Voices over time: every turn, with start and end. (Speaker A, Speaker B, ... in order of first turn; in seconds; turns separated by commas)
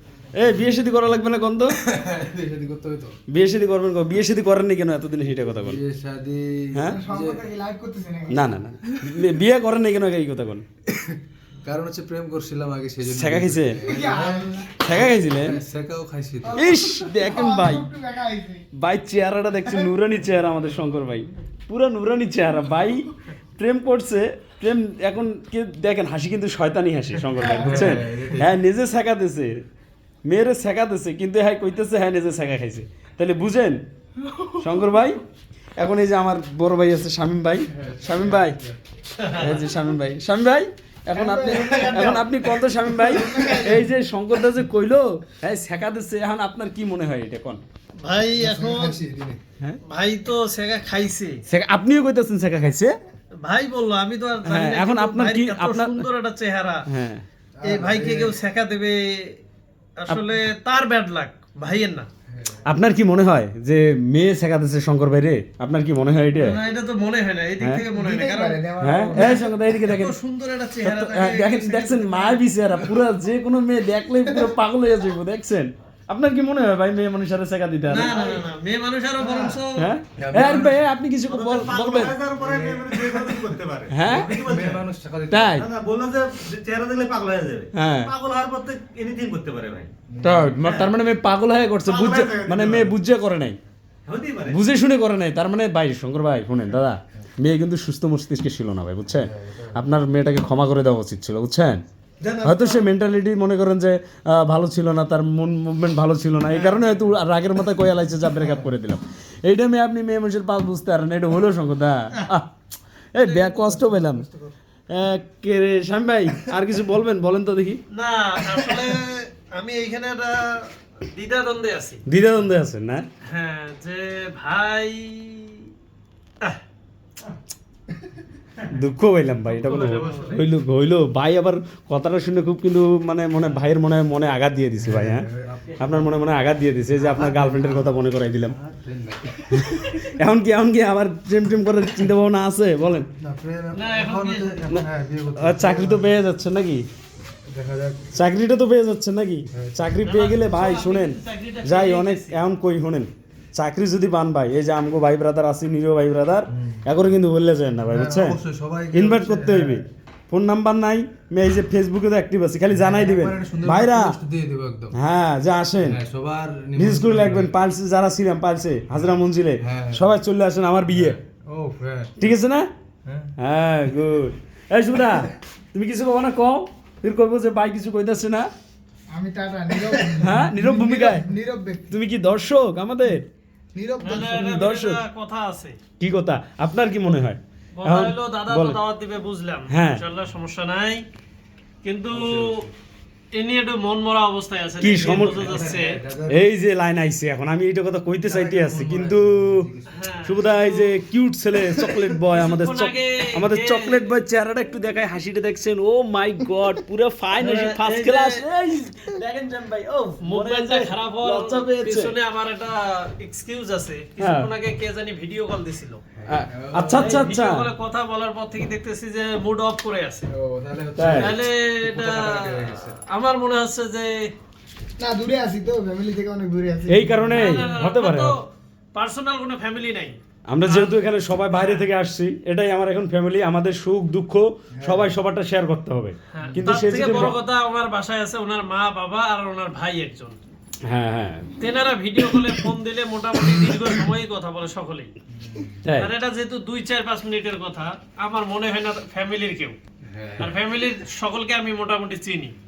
Speaker A: 0.3-1.8, Speaker B: 1.8-3.1, Speaker A: 3.3-5.8, Speaker B: 5.5-7.5, Speaker A: 6.7-7.0, Speaker C: 6.9-8.5, Speaker A: 8.3-10.7, Speaker B: 10.9-16.7, Speaker A: 13.1-13.9, Speaker C: 13.8-14.8, Speaker A: 14.8-15.6, Speaker C: 16.4-18.7, Speaker A: 16.6-17.9, Speaker A: 18.7-29.6, Speaker C: 27.4-28.0, Speaker B: 27.4-28.5, Speaker A: 30.3-33.8, Speaker A: 34.6-35.2, Speaker A: 35.8-38.6, Speaker B: 37.8-38.7, Speaker D: 39.1-39.6, Speaker A: 39.4-47.6, Speaker C: 41.1-42.2, Speaker D: 42.0-42.3, Speaker C: 43.0-43.9, Speaker D: 48.0-49.0, Speaker C: 48.5-49.0, Speaker B: 48.9-49.4, Speaker D: 49.9-51.4, Speaker A: 51.5-53.0, Speaker D: 53.4-56.9, Speaker A: 54.5-56.1, Speaker A: 56.9-57.2, Speaker B: 57.6-58.3, Speaker D: 57.6-59.4, Speaker D: 60.0-62.1, Speaker B: 62.3-62.6, Speaker A: 62.6-66.6, Speaker D: 66.3-72.4, Speaker C: 67.9-69.4, Speaker A: 68.8-70.2, Speaker A: 70.8-78.3, Speaker D: 77.9-79.9, Speaker E: 79.2-79.6, Speaker A: 79.8-82.2, Speaker B: 80.2-80.9, Speaker E: 81.3-84.9, Speaker B: 82.4-83.0, Speaker A: 83.9-84.4, Speaker B: 84.3-85.6, Speaker A: 85.3-85.7, Speaker E: 85.5-89.9, Speaker A: 87.8-88.1, Speaker B: 90.2-90.6, Speaker A: 90.2-93.6, Speaker E: 90.6-90.9, Speaker E: 91.8-92.9, Speaker E: 94.1-94.6, Speaker A: 94.5-101.8, Speaker B: 99.2-99.7, Speaker E: 102.2-102.9, Speaker A: 102.4-112.5, Speaker A: 113.1-114.2, Speaker A: 114.9-117.8, Speaker D: 117.9-122.0, Speaker A: 122.1-123.0, Speaker D: 123.3-125.7, Speaker A: 128.6-135.3, Speaker D: 129.5-130.4, Speaker B: 130.0-130.4, Speaker B: 134.8-136.1, Speaker A: 135.8-138.6, Speaker B: 137.1-139.7, Speaker A: 139.6-143.1, Speaker B: 143.2-146.1, Speaker D: 143.7-144.6, Speaker A: 144.7-146.9, Speaker B: 147.5-148.2, Speaker A: 148.1-158.4, Speaker B: 149.5-149.8, Speaker D: 150.0-152.4, Speaker B: 156.6-156.8, Speaker B: 157.9-159.8, Speaker A: 158.9-164.2, Speaker B: 162.7-165.0, Speaker A: 164.9-166.0, Speaker B: 165.8-167.5, Speaker A: 166.8-171.2, Speaker B: 169.6-170.1, Speaker B: 170.9-172.2, Speaker A: 172.2-172.7, Speaker B: 173.1-173.3, Speaker A: 173.4-178.5, Speaker C: 179.1-182.0, Speaker A: 180.2-181.3, Speaker A: 181.9-183.3, Speaker C: 183.8-184.5, Speaker D: 184.0-185.8, Speaker A: 184.3-185.0, Speaker A: 186.0-188.8, Speaker D: 187.8-191.0, Speaker A: 189.7-190.0, Speaker D: 191.8-192.7, Speaker B: 192.1-192.7, Speaker D: 193.3-196.0, Speaker A: 194.8-195.5, Speaker B: 195.0-196.5, Speaker A: 196.3-199.7, Speaker B: 198.2-200.2, Speaker D: 199.9-200.9, Speaker A: 200.2-212.1, Speaker D: 202.3-204.1, Speaker D: 207.4-208.4, Speaker D: 210.2-216.0, Speaker A: 214.2-214.5, Speaker B: 216.2-217.1, Speaker A: 216.3-217.7, Speaker D: 216.9-220.3, Speaker B: 220.3-223.0, Speaker A: 221.0-221.4, Speaker D: 221.1-224.3, Speaker C: 225.0-227.6, Speaker A: 226.9-228.4, Speaker D: 227.3-231.9, Speaker A: 230.5-237.4, Speaker C: 234.8-235.1, Speaker D: 236.3-240.4, Speaker A: 240.8-241.5, Speaker D: 241.6-245.1, Speaker B: 245.4-245.8, Speaker A: 245.8-246.1, Speaker D: 246.0-249.8, Speaker B: 250.1-250.5, Speaker D: 250.4-252.5